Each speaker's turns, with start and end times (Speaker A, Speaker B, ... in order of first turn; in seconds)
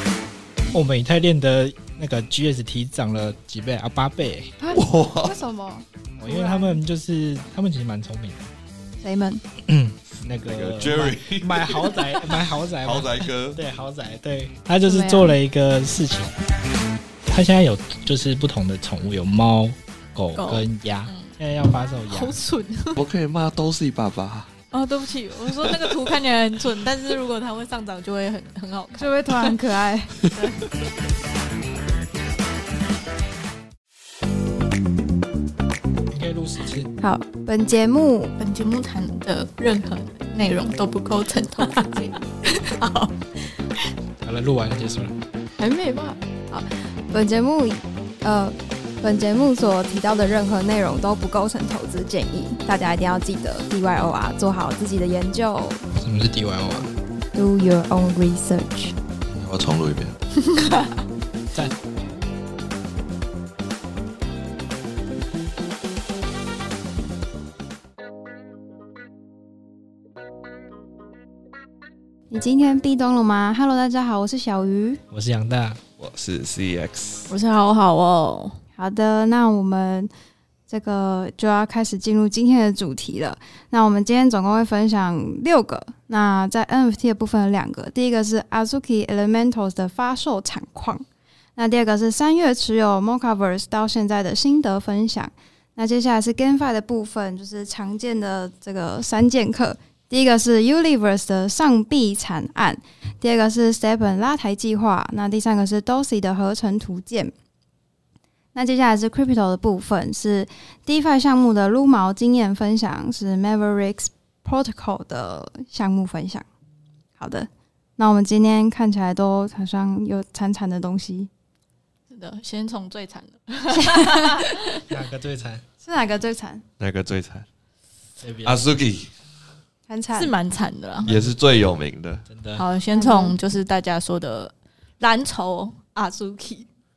Speaker A: 0.7-4.5, 6.2-8.5, 9.7-16.3, 17.3-22.4, 36.1-36.9, 44.2-45.2, 56.0-56.9, 75.1-75.8, 124.9-125.6, 128.2-128.6, 131.1-131.3, 132.3-132.6
Speaker B: 4.6-6.8, 9.0-9.4, 14.8-15.4, 29.0-30.2, 37.0-38.3, 41.7-43.0, 45.6-55.8, 57.3-59.0, 72.3-75.0, 78.8-80.1, 80.7-91.0, 91.6-107.3, 108.5-116.5, 117.2-121.3, 123.7-124.5, 125.8-126.6, 129.9-130.3, 132.9-133.4
Speaker C: 4.7-5.4, 10.4-13.6, 22.9-24.5, 25.6-26.1, 59.3-60.2, 76.0-77.3, 126.8-127.5, 128.4-129.1, 131.1-132.2
Speaker D: 20.4-21.3, 22.1-23.0, 24.7-29.5, 30.3-30.6, 38.4-41.9, 60.5-60.9, 77.3-78.6, 122.1-124.8, 130.1-131.1, 132.6-136.7